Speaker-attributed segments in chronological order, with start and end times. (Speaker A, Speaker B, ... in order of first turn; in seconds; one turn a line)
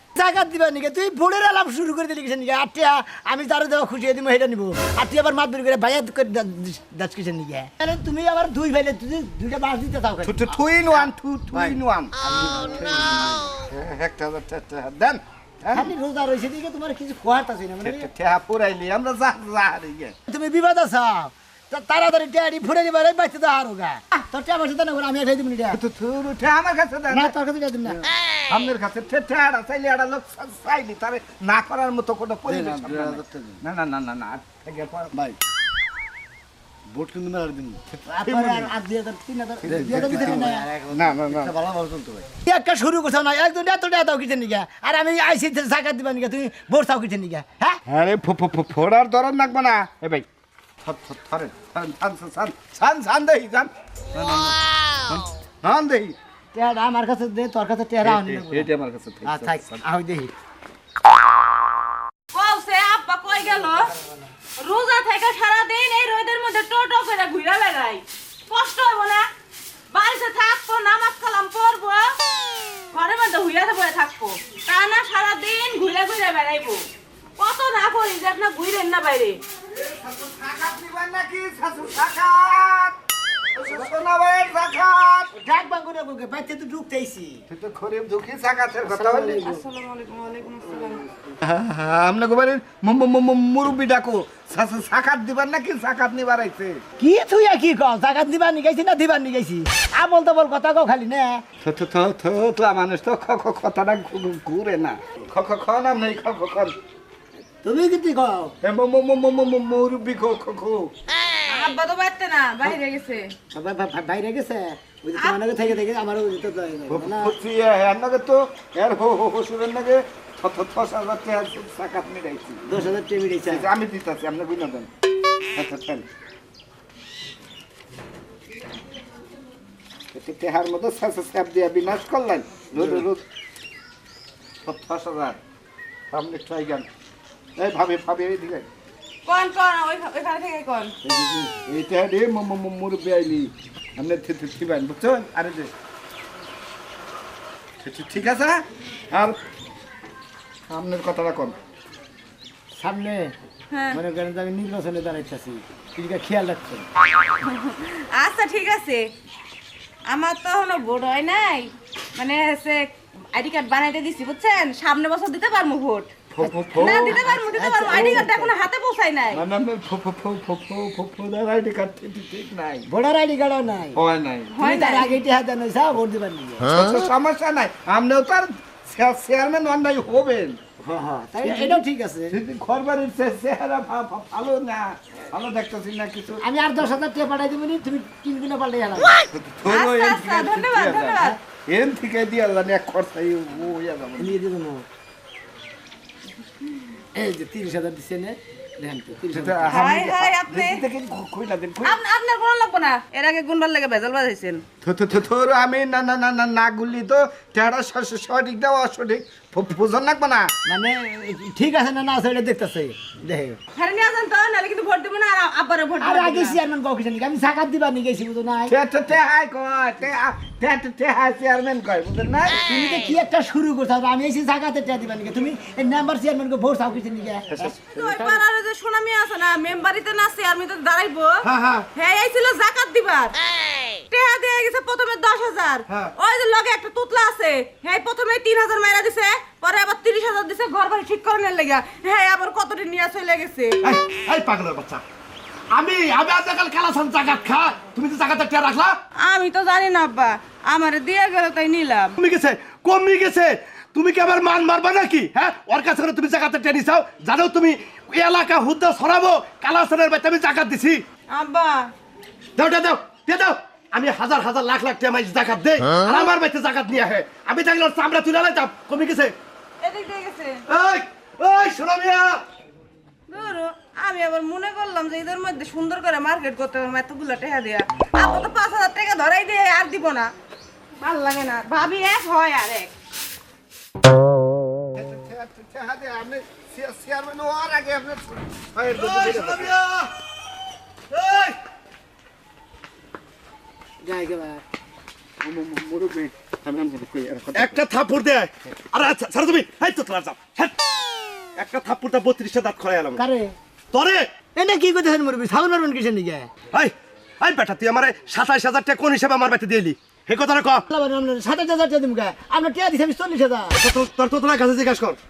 Speaker A: 0.1-10.5
Speaker B: 10.2-15.9
Speaker A: 15.7-18.1
Speaker B: 17.8-20.1
Speaker A: 20.3-25.8
Speaker B: 25.7-27.3
Speaker A: 27.1-28.0
Speaker B: 27.9-35.2
Speaker C: 32.5-33.6
Speaker C: 36.9-37.8
Speaker A: 38.1-40.7
Speaker B: 38.2-38.7
Speaker B: 39.6-41.6
Speaker C: 39.7-42.2
Speaker A: 42.4-47.8
Speaker B: 47.9-50.2
Speaker B: 50.8-56.1
Speaker A: 56.5-58.7
Speaker B: 58.0-59.8
Speaker A: 59.2-60.3
Speaker D: 62.3-63.9
Speaker D: 64.6-69.2
Speaker D: 69.9-72.1
Speaker D: 72.9-76.8
Speaker D: 77.4-79.4
Speaker B: 79.7-82.9
Speaker B: 83.5-85.3
Speaker A: 85.3-87.4
Speaker B: 87.5-89.4
Speaker A: 88.8-89.6
Speaker D: 89.4-91.0
Speaker B: 91.4-96.8
Speaker A: 97.0-101.4
Speaker B: 101.6-106.7
Speaker A: 107.6-108.5
Speaker B: 108.6-110.9
Speaker D: 111.5-113.3
Speaker A: 113.5-117.3
Speaker D: 115.2-115.6
Speaker B: 116.9-122.6
Speaker A: 122.7-123.7
Speaker B: 123.5-124.9
Speaker B: 125.5-126.0
Speaker B: 130.1-133.2
Speaker B: 134.6-135.4
Speaker B: 136.1-136.9
Speaker B: 137.6-138.7
Speaker D: 139.2-140.9
Speaker B: 141.0-145.7
Speaker B: 147.8-149.4
Speaker B: 150.7-151.5
Speaker A: 152.8-153.3
Speaker A: 153.9-156.8
Speaker D: 157.4-159.0
Speaker D: 160.1-166.1
Speaker B: 166.3-167.2
Speaker A: 166.4-168.6
Speaker D: 166.8-169.4
Speaker B: 167.9-168.2
Speaker B: 169.3-172.9
Speaker A: 172.9-174.0
Speaker B: 173.9-174.5
Speaker D: 174.5-175.1
Speaker A: 174.6-176.8
Speaker B: 176.7-180.6
Speaker A: 180.8-182.3
Speaker B: 181.4-186.4
Speaker A: 186.4-189.2
Speaker B: 189.3-194.3
Speaker D: 189.7-191.4
Speaker A: 194.2-194.8
Speaker A: 197.1-199.9
Speaker B: 199.3-202.0
Speaker D: 199.7-200.8
Speaker D: 201.8-204.6
Speaker B: 204.8-210.5
Speaker A: 210.7-213.6
Speaker D: 213.7-216.6
Speaker A: 216.0-218.7
Speaker B: 218.7-222.6
Speaker A: 222.7-227.7
Speaker B: 227.5-228.3
Speaker D: 227.7-233.3
Speaker B: 231.5-231.8
Speaker D: 234.1-243.8
Speaker E: 243.8-245.0
Speaker E: 245.7-249.0
Speaker D: 249.2-252.1
Speaker E: 252.2-261.0
Speaker D: 261.3-261.9
Speaker E: 262.6-269.3
Speaker D: 266.0-266.3
Speaker D: 269.8-270.6
Speaker E: 270.7-272.4
Speaker D: 273.3-280.3
Speaker D: 281.0-282.9
Speaker B: 284.9-289.7
Speaker E: 288.9-290.1
Speaker E: 291.1-291.6
Speaker A: 294.0-294.6
Speaker B: 295.4-297.8
Speaker E: 297.5-300.7
Speaker E: 301.6-303.2
Speaker A: 303.1-303.5
Speaker E: 303.9-304.3
Speaker A: 304.6-306.5
Speaker E: 306.7-310.8
Speaker A: 310.9-313.8
Speaker E: 313.8-315.2